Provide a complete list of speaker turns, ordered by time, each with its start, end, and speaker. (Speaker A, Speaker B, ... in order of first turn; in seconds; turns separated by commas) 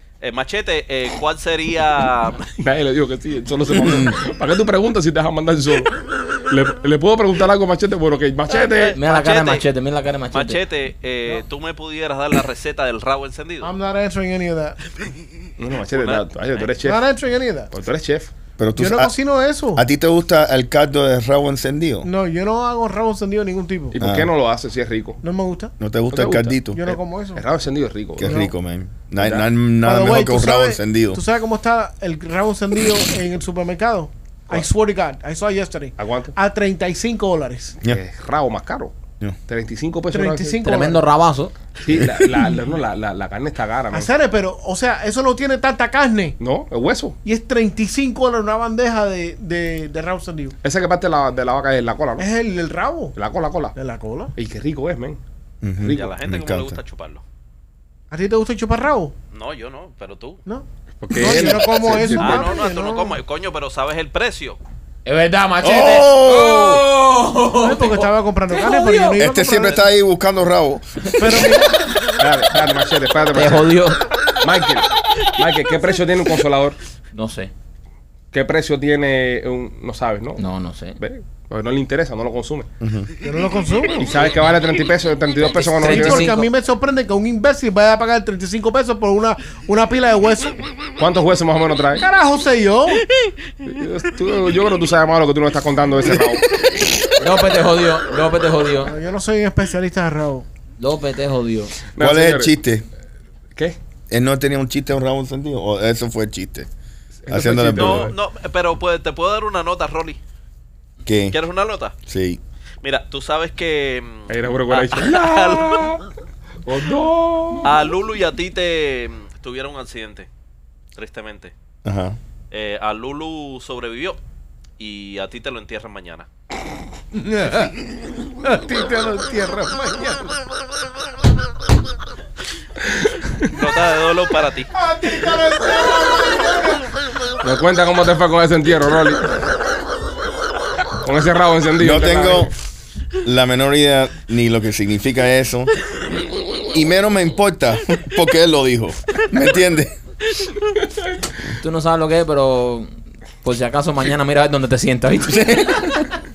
Speaker A: 0.2-2.5, Speaker B: 2.6-9.0, Speaker C: 3.8-4.1, Speaker A: 8.5-9.7, Speaker D: 8.9-10.6, Speaker A: 10.3-13.7, Speaker E: 13.6-14.8, Speaker B: 15.6-17.0, Speaker A: 15.9-16.7, Speaker E: 16.8-17.7, Speaker B: 17.7-18.3, Speaker C: 18.6-19.1, Speaker E: 18.8-19.9, Speaker C: 19.7-22.1, Speaker E: 22.0-24.0, Speaker B: 23.9-25.2, Speaker C: 24.0-24.3, Speaker E: 25.2-25.7, Speaker C: 25.8-26.8, Speaker B: 26.1-28.4, Speaker E: 26.7-27.4, Speaker C: 28.2-31.2, Speaker E: 28.2-28.5, Speaker B: 29.2-29.5, Speaker E: 29.8-37.8, Speaker B: 36.0-36.4, Speaker B: 37.8-38.9, Speaker B: 39.5-40.7, Speaker E: 40.1-41.1, Speaker D: 40.6-41.5, Speaker B: 41.8-44.1, Speaker C: 42.0-42.3, Speaker E: 43.9-46.4, Speaker B: 46.4-47.2, Speaker E: 47.2-50.6, Speaker B: 50.6-52.3, Speaker E: 52.2-53.2, Speaker B: 53.1-53.8, Speaker E: 53.8-54.3, Speaker B: 54.4-55.2, Speaker C: 55.6-56.8, Speaker B: 55.8-56.1, Speaker A: 55.9-57.2, Speaker E: 58.1-59.1, Speaker A: 59.3-60.4, Speaker E: 60.5-63.2, Speaker B: 61.0-62.5, Speaker A: 62.2-64.6, Speaker D: 65.0-68.1, Speaker C: 65.6-66.8, Speaker E: 67.6-69.8, Speaker C: 69.1-71.1, Speaker E: 71.2-71.7, Speaker B: 72.2-73.7, Speaker D: 73.3-74.1, Speaker B: 74.4-76.8, Speaker D: 77.1-77.5, Speaker B: 78.3-80.4, Speaker D: 80.4-81.0, Speaker B: 81.0-82.7, Speaker C: 82.8-83.1, Speaker E: 83.2-84.0, Speaker B: 84.0-86.5, Speaker D: 85.8-86.5, Speaker E: 85.8-90.6, Speaker B: 91.0-92.1, Speaker E: 92.0-93.0, Speaker B: 93.6-96.6, Speaker D: 97.2-98.9, Speaker E: 98.8-100.5, Speaker D: 100.8-101.8, Speaker B: 102.0-102.5, Speaker C: 102.0-102.9, Speaker C: 104.1-106.7, Speaker B: 107.2-108.1, Speaker C: 107.3-108.1, Speaker A: 107.8-110.2, Speaker C: 111.0-111.4, Speaker A: 111.3-111.9, Speaker C: 112.1-112.4, Speaker A: 112.8-116.0, Speaker B: 114.3-116.0, Speaker B: 116.7-117.8, Speaker A: 117.6-120.3, Speaker A: 121.0-121.5, Speaker C: 121.8-122.2, Speaker A: 122.5-124.2, Speaker A: 124.8-126.3, Speaker E: 127.1-127.8, Speaker E: 128.4-130.3, Speaker B: 133.0-133.3, Speaker A: 133.4-134.7, Speaker E: 134.7-136.9, Speaker B: 137.4-139.3, Speaker B: 141.0-142.5, Speaker C: 141.8-142.5, Speaker C: 143.2-145.7, Speaker C: 146.7-149.9, Speaker D: 151.5-152.9, Speaker D: 153.4-155.8, Speaker C: 155.3-156.1